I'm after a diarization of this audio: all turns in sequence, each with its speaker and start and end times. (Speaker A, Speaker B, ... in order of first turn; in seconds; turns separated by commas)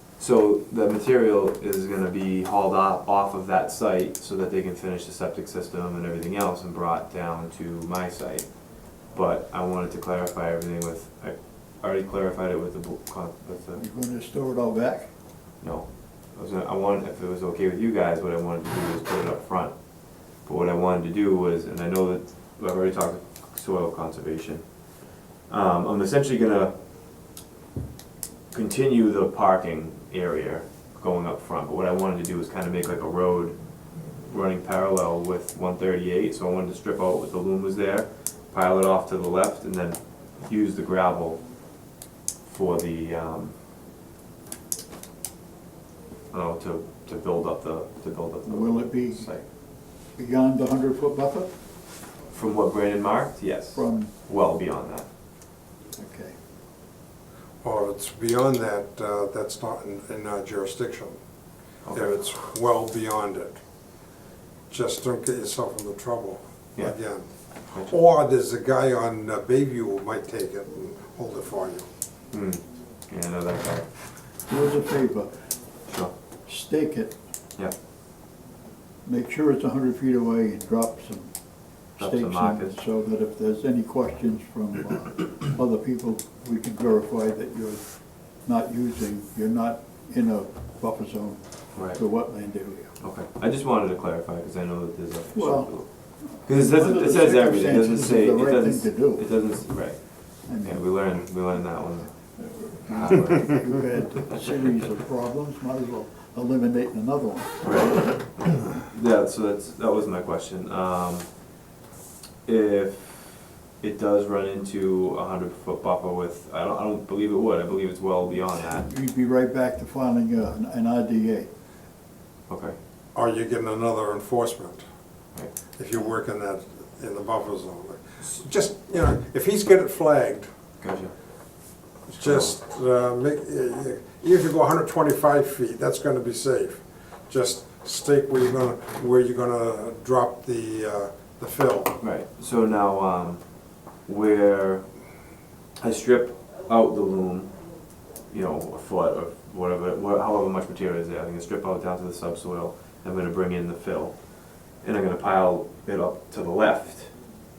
Speaker A: 0.2-13.8, Speaker B: 13.8-15.1, Speaker A: 15.6-26.8, Speaker A: 28.5-41.5, Speaker A: 42.5-43.5, Speaker A: 46.3-49.4, Speaker B: 48.4-49.4, Speaker B: 50.1-51.5, Speaker A: 52.3-55.1, Speaker B: 53.7-54.1, Speaker B: 55.9-56.3, Speaker C: 57.6-61.1, Speaker A: 61.8-62.2, Speaker C: 61.9-63.6, Speaker C: 64.7-71.8, Speaker A: 66.8-67.0, Speaker A: 72.3-73.8, Speaker B: 74.5-75.3, Speaker B: 76.5-77.1, Speaker B: 79.0-81.3, Speaker B: 82.0-92.9, Speaker A: 82.0-82.8, Speaker A: 91.7-92.0, Speaker A: 93.0-103.7, Speaker B: 95.3-99.6, Speaker B: 100.5-100.9, Speaker B: 102.6-108.0, Speaker A: 107.6-111.3, Speaker A: 112.5-118.9, Speaker B: 118.8-121.5, Speaker A: 122.5-122.8, Speaker C: 123.1-124.8, Speaker C: 125.8-130.5, Speaker A: 130.8-131.1, Speaker C: 132.1-142.0, Speaker A: 132.2-132.6, Speaker A: 142.0-143.4, Speaker A: 144.0-144.8, Speaker A: 145.8-147.5, Speaker A: 148.3-157.1